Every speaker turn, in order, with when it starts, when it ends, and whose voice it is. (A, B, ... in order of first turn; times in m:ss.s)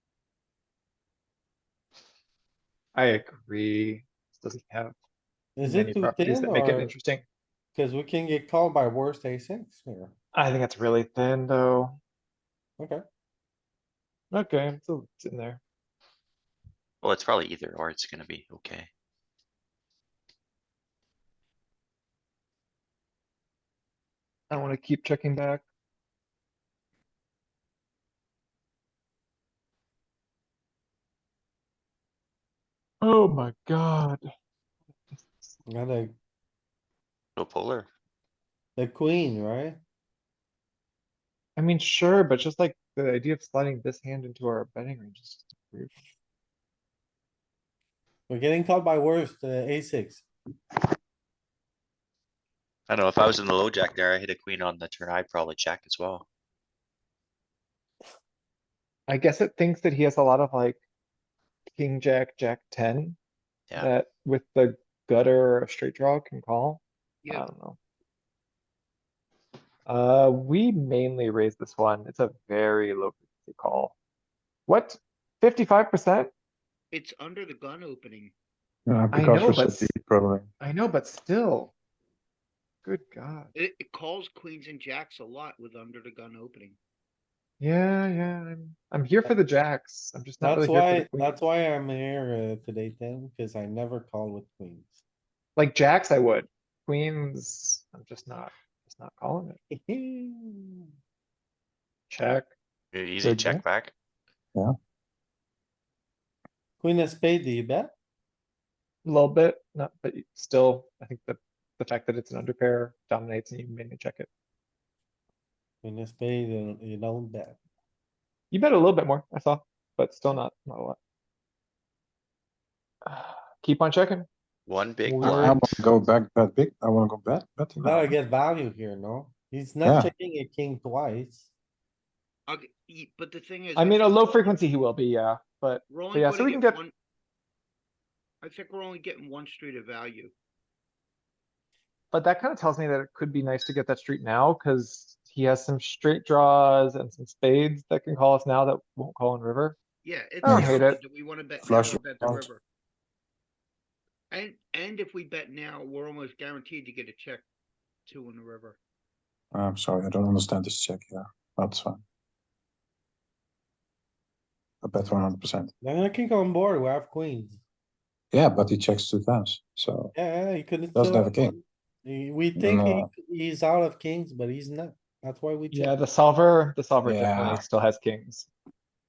0:02.9-0:05.0 A
0:05.6-0:06.9 B
0:05.6-0:07.2 A
0:07.8-0:10.1 B
0:10.3-0:12.0 A
0:14.3-0:15.6 A
0:17.0-0:18.9 C
0:24.5-0:25.6 A
0:33.0-0:34.3 A
0:35.1-0:35.6 A
0:35.7-0:36.2 B
0:37.4-0:37.9 C
0:38.8-0:39.8 B
0:41.6-0:45.9 A
0:48.3-0:50.2 B
0:52.9-0:56.3 C
0:59.1-1:00.8 A
1:01.8-1:03.2 A
1:03.8-1:07.8 A
1:09.9-1:14.0 A
1:14.7-1:16.3 A
1:16.9-1:18.3 D
1:18.9-1:20.5 E
1:19.1-1:19.9 A
1:20.6-1:21.7 A
1:22.8-1:23.5 A
1:23.6-1:26.8 D
1:27.6-1:31.4 A
1:30.4-1:35.0 B
1:35.6-1:39.6 A
1:39.7-1:40.9 B
1:42.1-1:42.5 A
1:42.9-1:43.9 C
1:43.2-1:43.6 A
1:46.8-1:47.9 B
1:49.0-1:54.3 A
1:55.8-1:57.6 B
1:58.5-2:01.0 A
2:03.0-2:04.3 A
2:04.7-2:05.6 C
2:05.0-2:05.6 A
2:05.2-2:08.1 E
2:07.8-2:08.1 A
2:07.8-2:11.5 B
2:09.8-2:10.1 E
2:12.5-2:14.6 D
2:13.8-2:16.8 A
2:15.9-2:16.9 D
2:18.4-2:20.3 D
2:22.1-2:29.8 A
2:30.0-2:32.6 D
2:30.4-2:31.0 A
2:30.5-2:30.8 E
2:31.6-2:32.5 E
2:34.3-2:37.4 D
2:38.1-2:38.8 D
2:39.5-2:42.0 E
2:44.8-2:45.7 E
2:45.8-2:47.6 B
2:48.3-2:50.2 E
2:50.1-2:56.0 B
2:51.0-2:51.6 E
2:52.6-2:53.1 E
2:55.7-2:58.5 A
2:57.0-2:57.6 E